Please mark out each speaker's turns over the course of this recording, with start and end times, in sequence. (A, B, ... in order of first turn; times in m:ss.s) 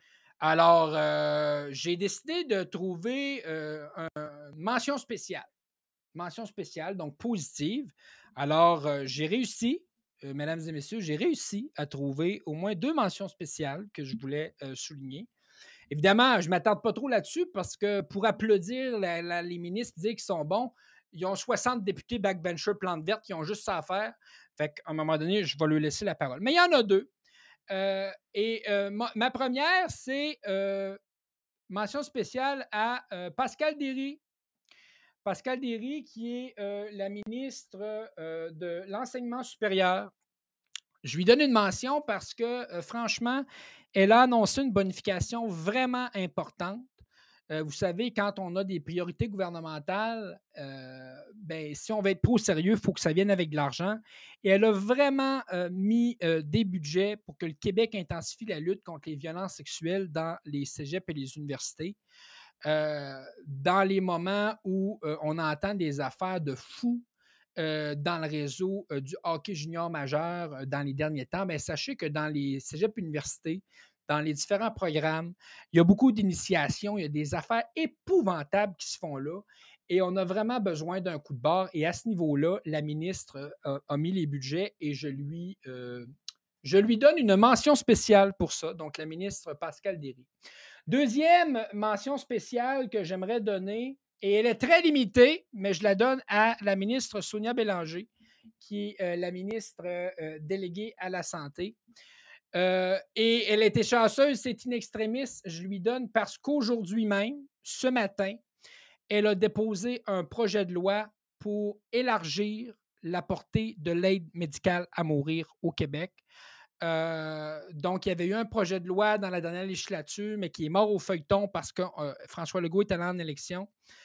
0:00.4-0:05.5 A
0:06.1-0:15.3 A
0:15.9-0:27.1 A
0:27.7-0:31.0 A
0:31.7-0:34.2 A
0:35.2-0:40.1 A
0:41.0-0:46.9 A
0:47.5-1:02.0 A
1:02.6-1:07.0 A
1:07.6-1:26.1 A
1:26.6-1:30.3 A
1:30.9-1:41.8 A
1:42.5-1:48.4 A
1:49.1-1:56.2 A
1:56.8-2:03.7 A